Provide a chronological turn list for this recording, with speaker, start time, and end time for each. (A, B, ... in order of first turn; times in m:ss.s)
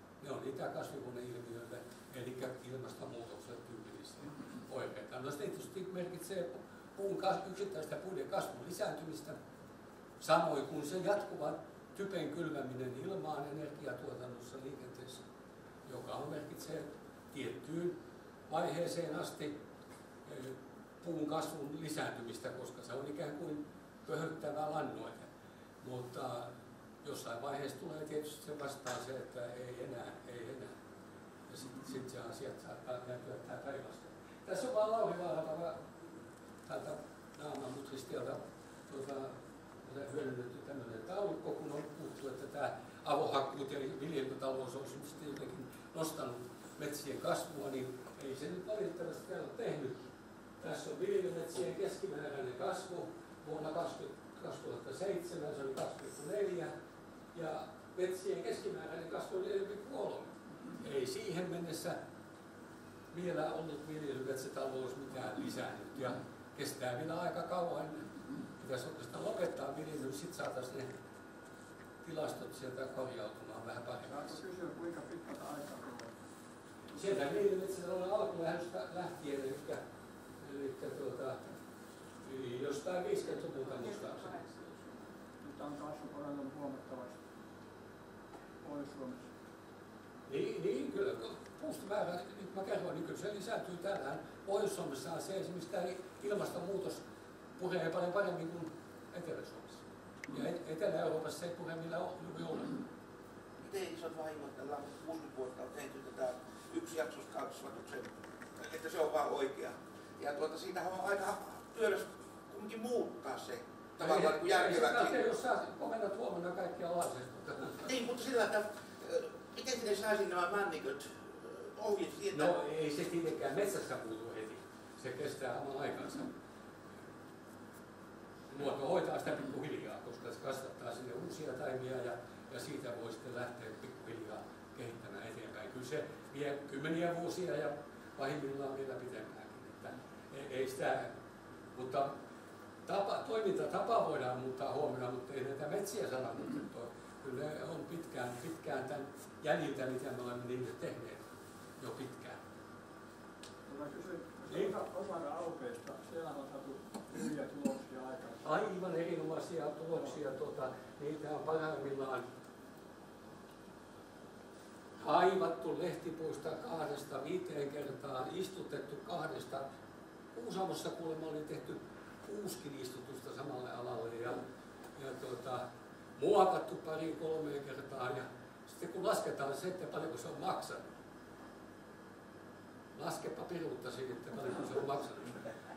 0:00.2-0:09.4 A
0:10.2-0:15.2 A
0:15.8-0:19.6 A
0:20.2-0:25.3 A
0:25.8-0:30.8 A
0:31.5-0:50.1 A
0:50.6-0:56.7 A
0:57.3-1:02.0 A
1:03.1-1:10.9 A
1:12.0-1:14.4 A
1:14.1-1:16.2 B
1:16.9-1:19.8 A
1:20.4-1:21.4 A
1:22.2-1:25.0 A
1:25.4-1:27.2 B
1:28.6-1:29.3 B
1:30.3-1:37.0 A
1:37.6-1:42.8 A
1:43.6-1:55.2 C
1:54.0-1:57.9 A
1:57.8-2:02.6 C
2:02.3-2:06.3 A
2:08.5-2:21.1 A
2:21.7-2:22.2 A
2:22.8-2:31.2 A
2:31.8-2:32.4 A
2:33.6-2:38.6 B
2:34.5-2:34.7 A
2:38.4-2:42.3 A
2:45.0-2:49.7 A
2:50.3-2:54.4 A
2:55.0-3:00.9 A
3:03.0-3:05.4 A